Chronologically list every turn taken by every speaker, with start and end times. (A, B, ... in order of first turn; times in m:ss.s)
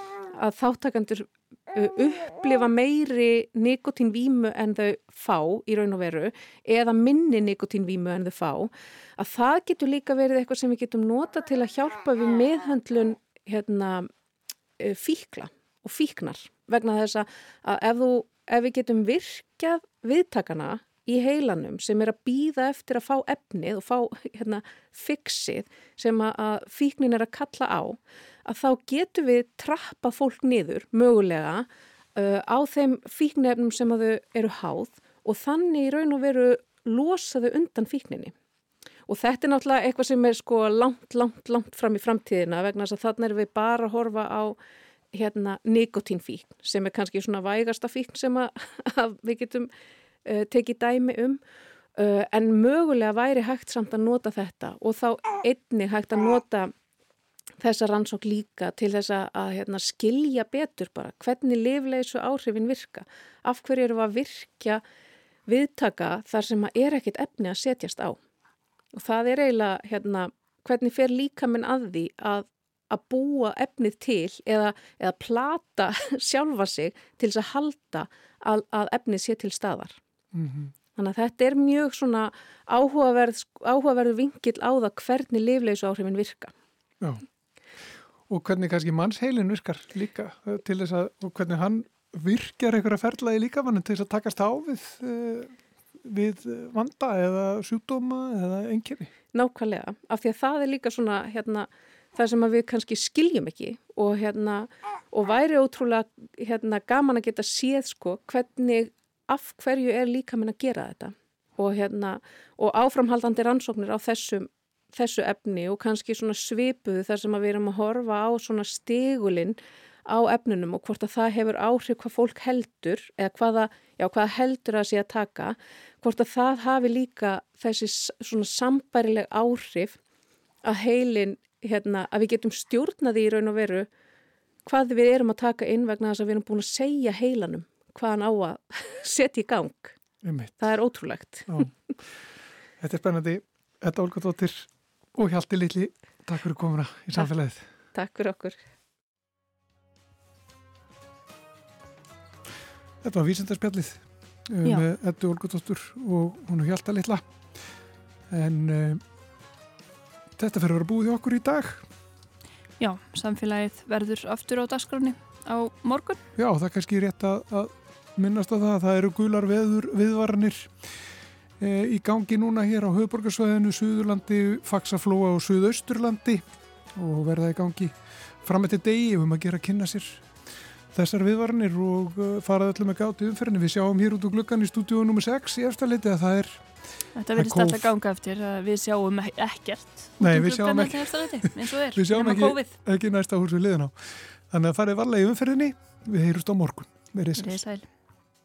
0:00.3-0:14.1 A
0:14.8-0:38.3 A
0:39.1-0:44.6 A
0:45.1-0:49.7 A
0:50.2-0:51.4 A
0:51.9-0:56.7 A
0:57.6-1:04.8 A
1:05.5-1:08.2 A
1:08.9-1:20.0 A
1:20.3-1:20.7 B
1:20.9-1:26.5 A
1:28.3-1:39.1 B
1:39.3-2:10.0 A
2:10.6-2:13.9 A
2:14.6-2:20.0 A
2:20.2-2:20.7 B
2:20.6-2:21.7 A
2:22.8-2:27.6 B
2:27.9-2:28.6 A
2:33.0-2:37.2 B
2:38.3-2:39.0 B
2:40.4-2:41.8 B
2:42.8-2:46.2 C
2:46.4-2:50.7 B
2:51.6-2:56.4 B
2:56.9-2:57.9 B
2:58.4-3:00.3 B
3:00.9-3:06.6 B
3:07.2-3:12.7 C
3:07.3-3:07.9 B
3:10.2-3:17.6 B
3:17.4-3:17.9 C